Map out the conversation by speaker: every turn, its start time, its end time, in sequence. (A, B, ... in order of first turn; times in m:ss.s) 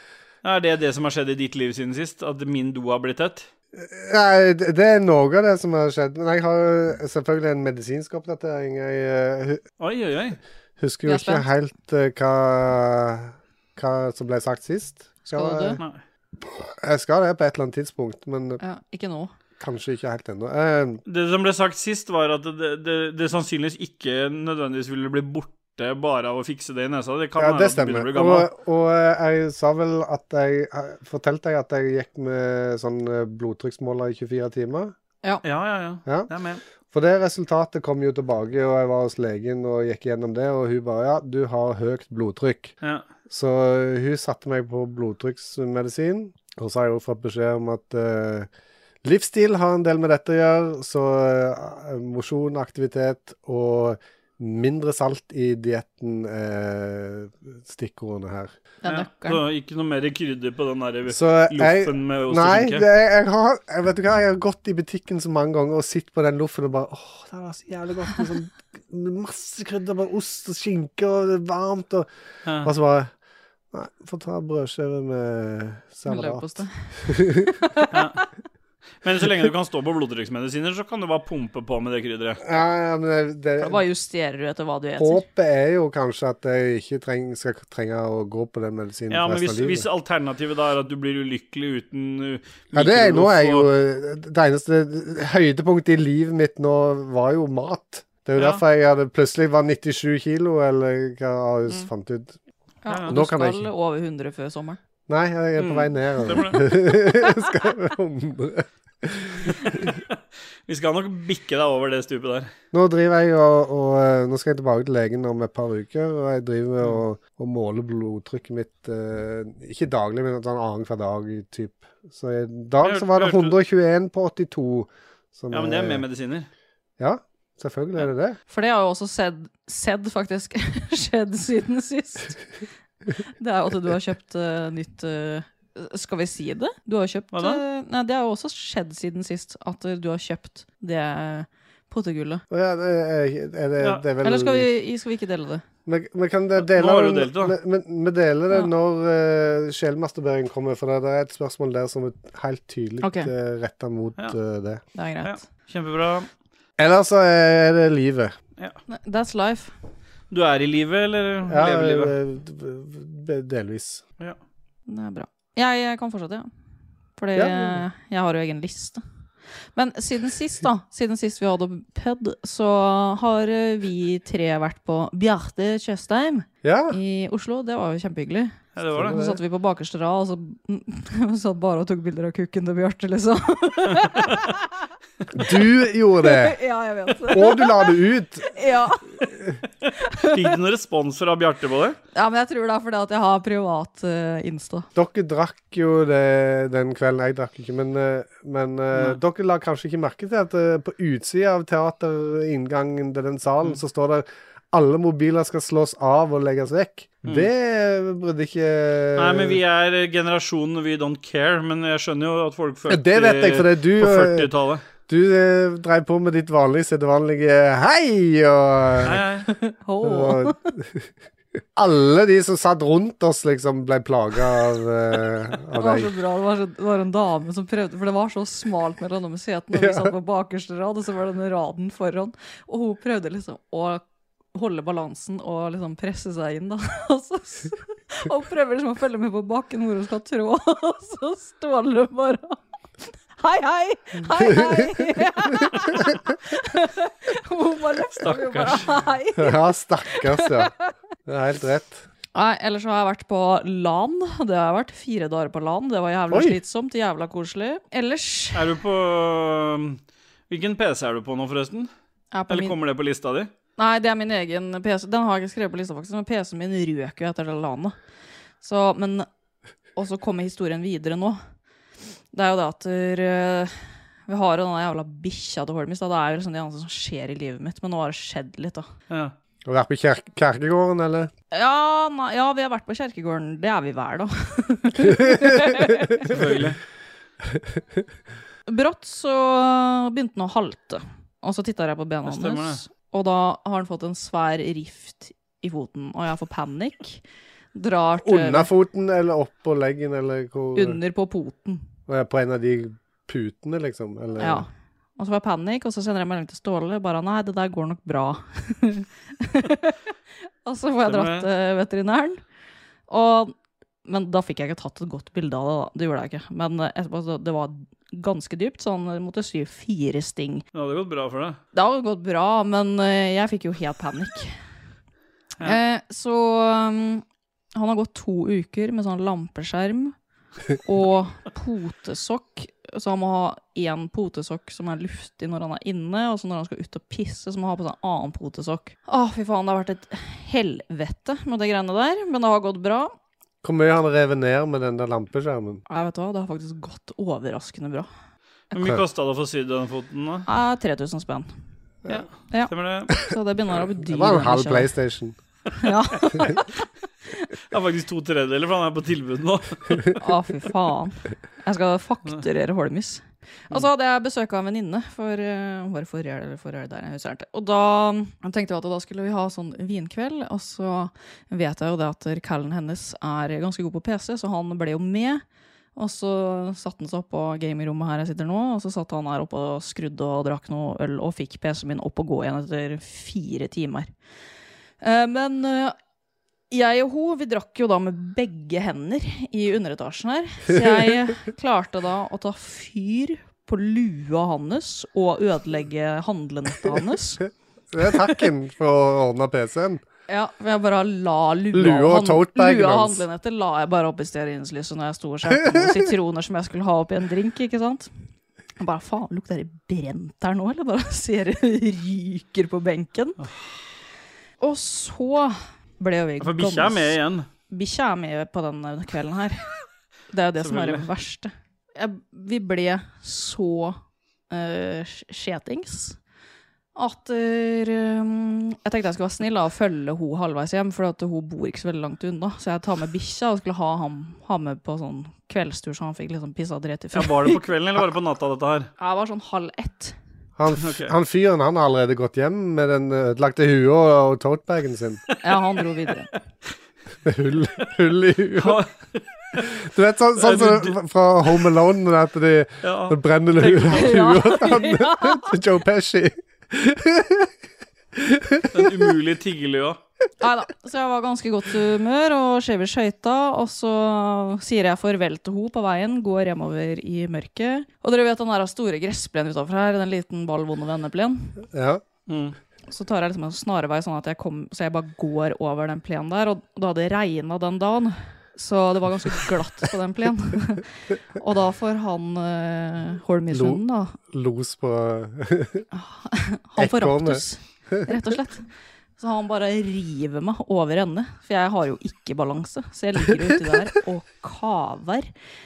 0:00.4-0:03.5 A
0:03.7-0:09.6 B
0:09.8-0:10.4 A
0:10.8-0:15.8 B
0:11.1-0:11.5 C
0:15.2-0:15.8 C
0:16.6-0:18.6 B
0:18.6-0:19.3 C
0:19.6-0:21.0 B
0:21.1-0:28.5 A
0:27.4-0:34.9 B
0:35.4-0:36.6 A
0:36.9-0:42.8 B
0:43.3-0:48.5 B
0:49.0-0:58.5 B
0:58.8-0:59.4 C
0:58.8-1:02.8 A
1:01.1-1:12.1 B
1:12.5-1:12.7 A
1:12.6-1:13.1 B
1:13.7-1:17.6 B
1:16.1-1:18.0 C
1:17.9-1:18.2 A
1:19.0-1:22.4 A
1:22.4-1:23.8 B
1:23.6-1:25.2 C
1:25.0-1:29.9 B
1:29.1-1:33.7 A
1:32.7-1:42.4 B
1:38.4-1:38.6 A
1:42.8-1:44.8 C
1:42.9-1:43.1 A
1:43.1-1:43.7 B
1:45.1-1:49.8 B
1:45.6-1:46.6 A
1:49.5-1:50.1 A
1:50.7-1:52.5 A
1:52.7-2:06.0 B
2:02.8-2:03.6 A
2:05.5-2:06.5 A
2:07.0-2:08.4 B
2:08.5-2:12.6 C
2:13.4-2:22.4 C
2:17.3-2:17.6 A
2:22.5-2:24.7 B
2:24.2-2:25.6 C
2:25.9-2:34.8 B
2:26.6-2:27.6 A
2:33.0-2:33.3 C
2:35.0-2:35.4 C
2:35.2-2:36.3 A
2:36.8-2:38.3 B
2:38.9-2:39.7 C
2:40.3-2:42.2 A
2:41.5-2:44.0 B
2:44.9-2:46.5 C
2:47.2-2:49.0 C
2:47.4-2:47.8 B
2:49.8-3:04.6 C
2:56.6-2:57.0 B
2:58.8-2:59.2 A
2:58.9-2:59.4 B
3:04.0-3:04.4 A
3:05.3-3:06.6 B
3:06.2-3:08.0 C
3:07.3-3:08.6 B
3:08.5-3:09.3 C
3:09.2-3:09.5 B
3:10.0-3:10.4 C
3:10.2-3:12.0 A
3:12.1-3:14.9 C
3:15.0-3:29.6 B
3:29.2-3:34.8 A
3:32.9-3:34.5 B
3:35.0-3:39.2 B
3:39.0-3:39.5 A
3:39.5-3:40.6 C
3:40.0-3:41.1 B
3:41.8-3:46.1 B
3:45.8-3:54.0 C
3:49.7-3:50.1 B
3:54.5-4:02.6 C
4:03.4-4:10.7 C
4:04.3-4:05.0 B
4:08.2-4:08.9 A
4:09.4-4:10.7 B
4:11.3-4:12.1 B
4:12.4-4:18.7 C
4:16.3-4:16.6 B
4:18.5-4:21.9 A
4:22.3-4:22.8 C
4:22.5-4:23.5 A
4:23.8-4:28.0 C
4:28.6-4:29.3 C
4:30.0-4:31.4 C
4:32.3-4:38.9 C
4:39.7-4:41.3 B
4:41.5-4:46.3 C
4:46.3-4:46.8 A
4:48.7-4:57.2 C
4:52.3-4:52.8 A
4:57.8-4:58.7 C
4:58.2-5:01.0 B
5:00.8-5:01.8 C
5:02.1-5:04.7 B
5:04.4-5:10.0 C
5:10.6-5:12.4 C
5:11.0-5:11.5 A
5:13.1-5:13.5 C
5:14.1-5:20.6 C
5:20.7-5:21.6 A
5:21.7-5:24.6 C
5:25.6-5:27.2 C
5:27.8-5:30.1 C
5:30.8-5:43.1 C
5:43.6-5:45.8 B
5:45.9-5:48.1 C
5:48.7-5:50.5 A
5:50.5-5:51.5 C
5:52.1-5:53.1 A
5:52.1-5:54.9 C
5:54.1-5:55.4 B
5:55.8-5:56.8 C
5:57.7-6:00.2 A
6:00.2-6:15.4 C
6:16.0-6:24.1 C
6:25.0-6:26.0 C
6:26.7-6:37.5 C
6:37.9-6:40.0 B
6:40.3-6:48.1 C
6:41.7-6:43.2 B
6:48.8-6:53.4 C
6:53.4-6:53.7 A
6:54.6-6:57.2 C
6:56.4-6:57.5 A
6:57.7-6:59.7 C
7:00.3-7:04.0 C
7:00.6-7:01.1 A
7:04.5-7:06.2 C
7:07.0-7:17.6 C
7:17.1-7:18.9 A
7:19.0-7:20.2 C
7:20.6-7:25.2 B
7:20.8-7:21.1 A
7:25.4-7:26.3 C
7:27.2-7:28.8 B
7:28.6-7:29.7 A
7:29.6-7:37.5 B
7:30.4-7:31.0 A
7:32.8-7:34.1 A
7:33.9-7:35.5 C
7:38.2-7:38.9 B
7:38.7-7:40.0 A
7:40.4-7:51.6 C
7:51.7-7:52.0 B
7:52.3-7:52.6 A
7:52.9-8:04.2 C
8:03.5-8:05.9 B
8:05.9-8:15.3 C
8:06.8-8:08.1 B